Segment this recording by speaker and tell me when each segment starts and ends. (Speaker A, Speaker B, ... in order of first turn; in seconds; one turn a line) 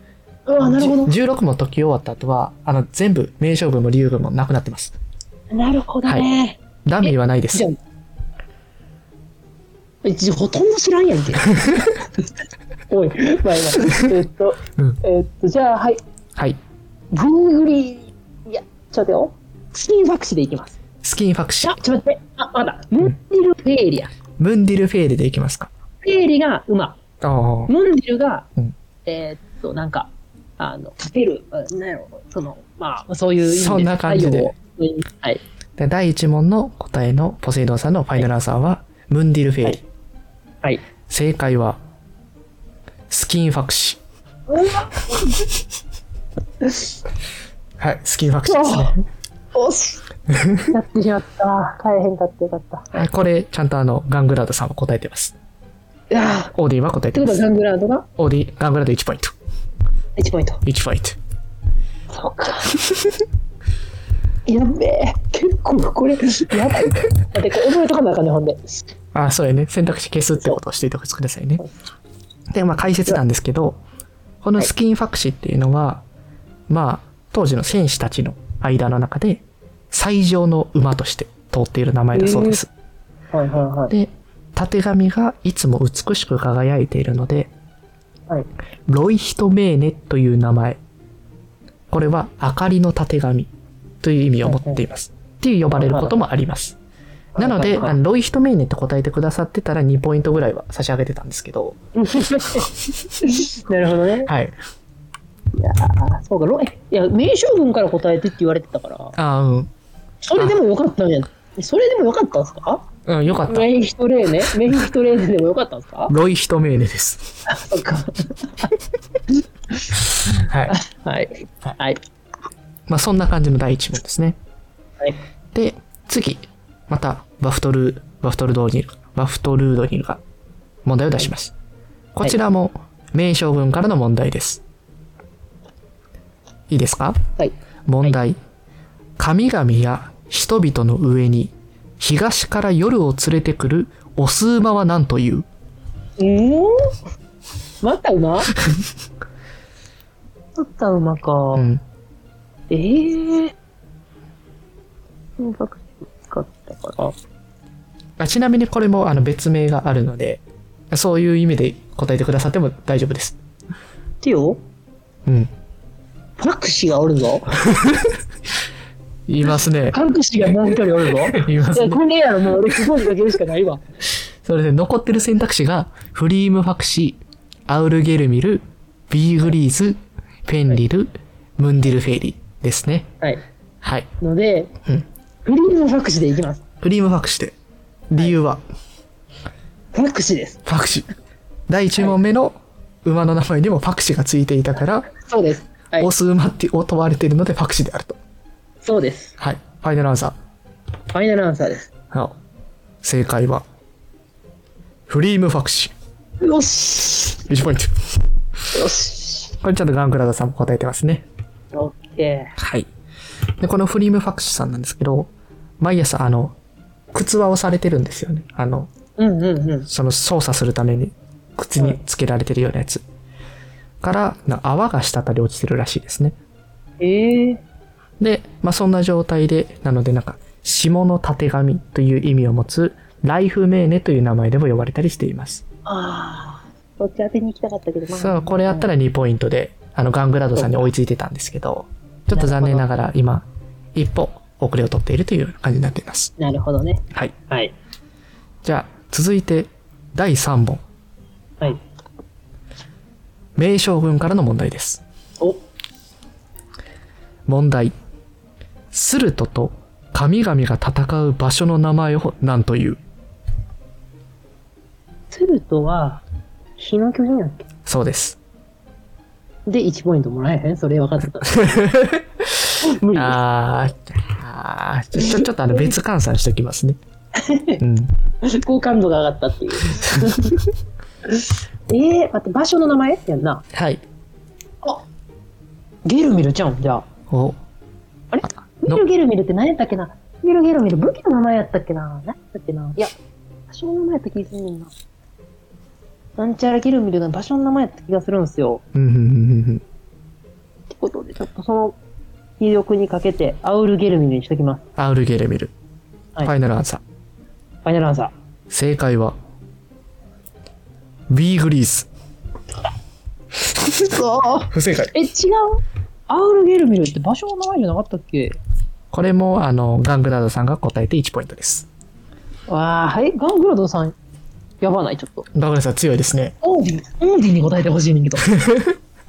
Speaker A: 0.5-1.1
Speaker B: 0.6-4.9
Speaker A: 5.5-7.8
Speaker B: 6.8-7.7
Speaker A: 10.0-12.0
Speaker A: 12.9-16.0
Speaker A: 17.1-20.8
Speaker B: 21.0-21.8
Speaker A: 21.6-24.1
Speaker B: 24.4-25.7
Speaker A: 26.0-27.0
Speaker B: 27.2-27.7
Speaker A: 27.7-28.5
Speaker A: 29.0-35.4
Speaker B: 33.4-34.5
Speaker B: 35.8-39.8
Speaker B: 41.1-41.8
Speaker B: 43.1-44.0
Speaker A: 44.5-45.5
Speaker B: 47.8-49.0
Speaker A: 48.5-49.0
Speaker A: 49.5-50.0
Speaker B: 50.3-50.7
Speaker A: 50.7-53.1
Speaker B: 52.9-55.3
Speaker A: 56.1-56.5
Speaker B: 56.5-57.4
Speaker A: 57.1-58.1
Speaker B: 58.2-59.3
Speaker A: 60.2-60.6
Speaker B: 60.6-61.2
Speaker A: 62.1-62.8
Speaker A: 64.5-68.8
Speaker B: 69.1-71.6
Speaker B: 72.5-73.8
Speaker B: 74.4-76.0
Speaker B: 76.7-82.7
Speaker A: 82.1-82.6
Speaker A: 83.3-83.9
Speaker B: 83.9-87.5
Speaker B: 88.9-90.8
Speaker B: 91.9-93.5
Speaker B: 94.0-96.8
Speaker A: 94.4-94.8
Speaker A: 95.7-96.2
Speaker A: 97.3-98.0
Speaker B: 97.4-101.8
Speaker A: 102.0-104.3
Speaker B: 104.3-104.5
Speaker A: 105.5-109.2
Speaker B: 109.2-109.7
Speaker A: 110.2-112.9
Speaker B: 113.0-113.7
Speaker A: 113.5-116.1
Speaker B: 116.1-117.4
Speaker A: 117.5-118.7
Speaker A: 119.7-122.0
Speaker B: 120.4-120.8
Speaker B: 122.9-124.4
Speaker B: 125.5-130.2
Speaker B: 130.8-131.5
Speaker B: 132.1-134.6
Speaker B: 136.7-137.2
Speaker A: 137.4-138.1
Speaker B: 137.9-138.4
Speaker B: 139.2-145.4
Speaker A: 146.2-146.9
Speaker A: 147.8-148.5
Speaker A: 150.6-151.7
Speaker B: 151.5-151.8
Speaker A: 152.7-153.5
Speaker A: 155.4-157.1
Speaker B: 158.2-163.4
Speaker A: 164.2-164.6
Speaker A: 166.4-167.7
Speaker B: 167.7-168.1
Speaker B: 169.3-170.0
Speaker A: 169.9-173.8
Speaker B: 171.2-172.0
Speaker B: 174.4-183.1
Speaker B: 183.8-184.1
Speaker A: 184.2-184.7
Speaker A: 185.4-186.6
Speaker B: 186.8-187.6
Speaker B: 188.1-188.6
Speaker A: 189.9-190.6
Speaker B: 190.7-191.1
Speaker B: 191.7-195.1
Speaker A: 195.1-196.1
Speaker B: 196.0-198.2
Speaker A: 198.8-199.3
Speaker B: 199.4-200.3
Speaker A: 201.1-201.9
Speaker B: 202.1-202.3
Speaker B: 203.0-203.6
Speaker B: 205.1-205.9
Speaker A: 206.4-207.4
Speaker B: 207.4-207.9
Speaker A: 208.7-209.5
Speaker B: 209.6-211.2
Speaker A: 211.7-212.6
Speaker B: 212.6-212.9
Speaker B: 213.6-216.6
Speaker B: 217.1-218.9
Speaker A: 219.2-219.9
Speaker B: 219.9-223.0
Speaker B: 224.0-226.4
Speaker A: 227.0-227.6
Speaker B: 228.2-235.6
Speaker A: 235.8-238.9
Speaker B: 238.1-246.3
Speaker A: 240.6-240.8
Speaker A: 242.3-243.0
Speaker A: 246.4-247.7
Speaker B: 248.6-250.8
Speaker B: 253.6-255.0
Speaker B: 257.5-257.9
Speaker B: 258.9-263.0
Speaker A: 265.3-266.2
Speaker A: 266.8-267.6
Speaker B: 267.9-268.4
Speaker A: 269.7-271.7
Speaker B: 271.4-277.0
Speaker A: 272.8-273.4
Speaker A: 275.2-275.8
Speaker A: 277.4-277.8
Speaker B: 277.8-278.1
Speaker A: 278.4-280.6
Speaker A: 281.3-283.6
Speaker B: 283.7-284.0
Speaker A: 286.0-287.1
Speaker B: 287.3-287.6
Speaker A: 288.3-293.1
Speaker A: 293.7-294.9
Speaker A: 296.4-298.8
Speaker B: 298.9-299.8
Speaker A: 300.9-301.9
Speaker A: 302.6-304.8
Speaker B: 305.0-305.7
Speaker B: 306.4-307.0
Speaker A: 307.8-308.3
Speaker B: 308.7-309.4
Speaker B: 311.3-312.1
Speaker A: 313.9-318.6
Speaker B: 314.7-315.1
Speaker B: 319.1-321.9
Speaker A: 322.7-324.1
Speaker A: 324.8-325.4
Speaker B: 325.5-326.5
Speaker A: 326.6-328.5
Speaker B: 328.5-328.9